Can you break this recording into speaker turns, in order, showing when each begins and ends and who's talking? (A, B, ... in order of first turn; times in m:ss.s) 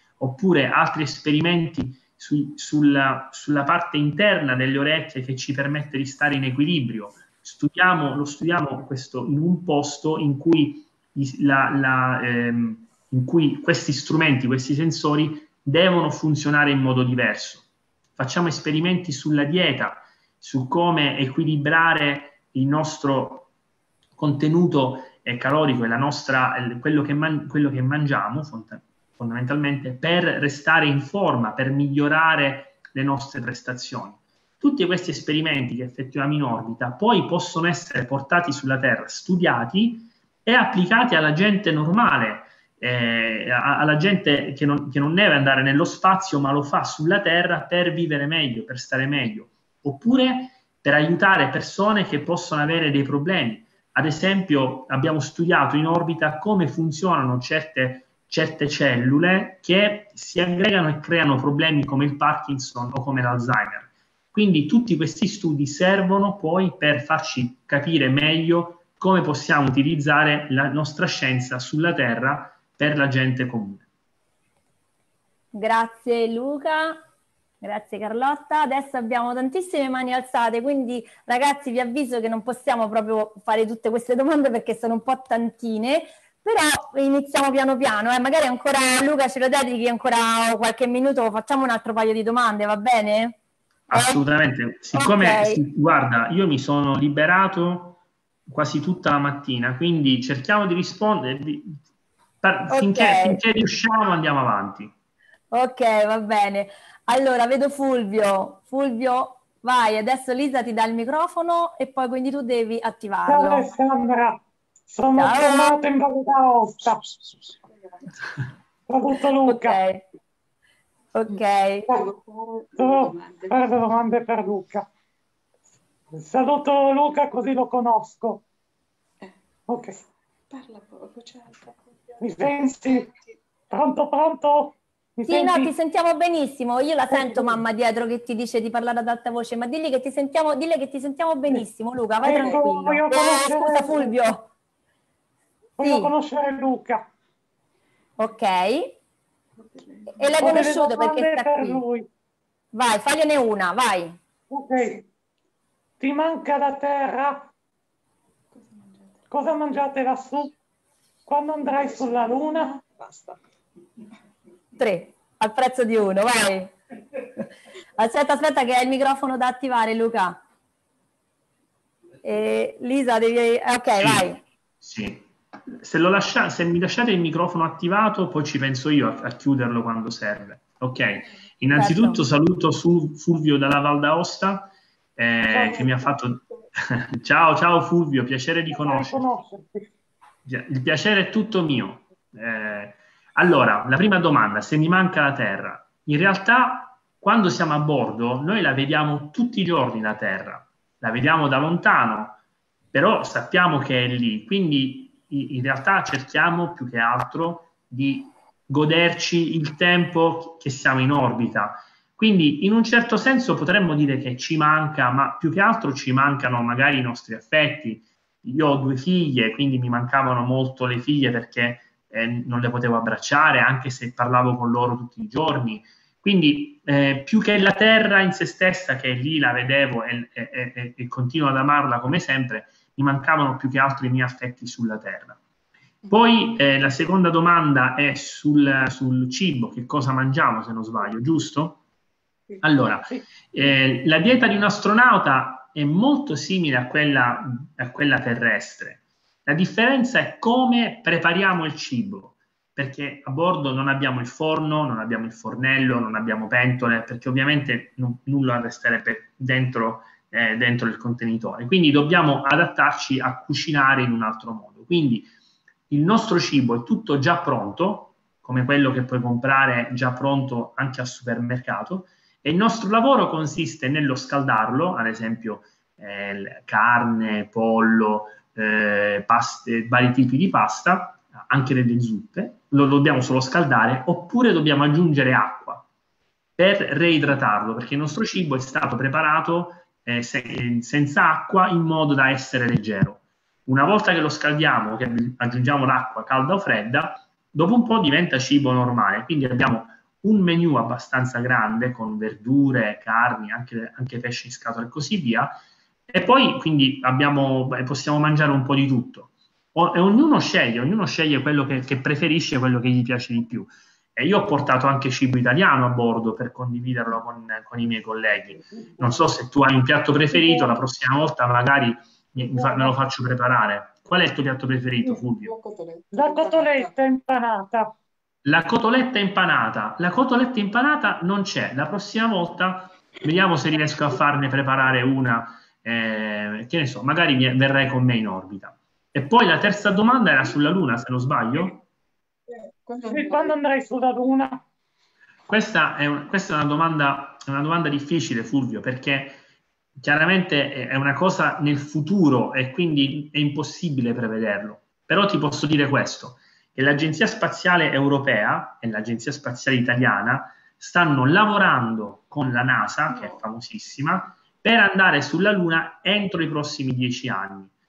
0:00.2-0:17.7 A
0:18.2-0:23.5 A
0:24.2-1:13.9 A
1:15.5-1:17.0 B
1:17.6-1:33.4 B
1:33.9-1:41.8 A
1:33.9-1:34.2 B
1:34.9-1:35.6 B
1:42.4-1:44.9 A
1:42.7-1:43.4 B
1:45.5-1:53.7 B
1:53.3-1:57.1 C
1:55.1-1:55.8 B
1:57.7-1:58.1 D
1:58.9-1:59.8 C
1:59.4-2:00.0 B
2:01.1-2:01.9 B
2:01.9-2:03.8 D
2:02.8-2:04.9 C
2:06.1-2:08.4 C
2:09.7-2:10.0 C
2:10.5-2:12.8 D
2:12.2-2:13.1 C
2:13.7-2:15.7 C
2:15.3-2:24.5 B
2:17.1-2:17.6 C
2:22.2-2:24.2 C
2:22.4-2:22.6 D
2:25.8-2:27.1 C
2:25.8-2:26.1 B
2:28.2-2:29.0 B
2:29.6-2:30.8 D
2:30.2-2:31.8 B
2:30.4-2:32.1 C
2:32.7-2:34.2 B
2:34.5-2:35.0 C
2:36.0-2:37.5 C
2:38.5-2:39.3 D
2:39.3-2:40.5 C
2:41.3-2:42.8 C
2:41.6-2:43.4 D
2:44.8-2:46.7 B
2:48.0-2:50.4 B
2:52.2-2:54.4 B
2:54.0-2:54.3 A
2:54.8-3:09.3 A
3:01.7-3:02.2 B
3:05.5-3:06.1 C
3:08.7-3:09.9 C
3:10.4-3:22.4 A
3:22.9-3:55.4 A
3:56.1-4:01.8 A
4:02.6-4:25.3 A
4:25.9-4:45.8 A
4:46.6-5:05.6 A
5:06.1-5:25.5 A
5:20.3-5:20.8 C
5:22.5-5:23.0 C
5:25.0-5:26.9 D
5:26.1-5:27.9 C
5:28.4-5:41.8 A
5:42.5-5:43.6 D
5:43.1-5:44.6 C
5:45.5-5:49.4 A
5:50.0-6:07.7 A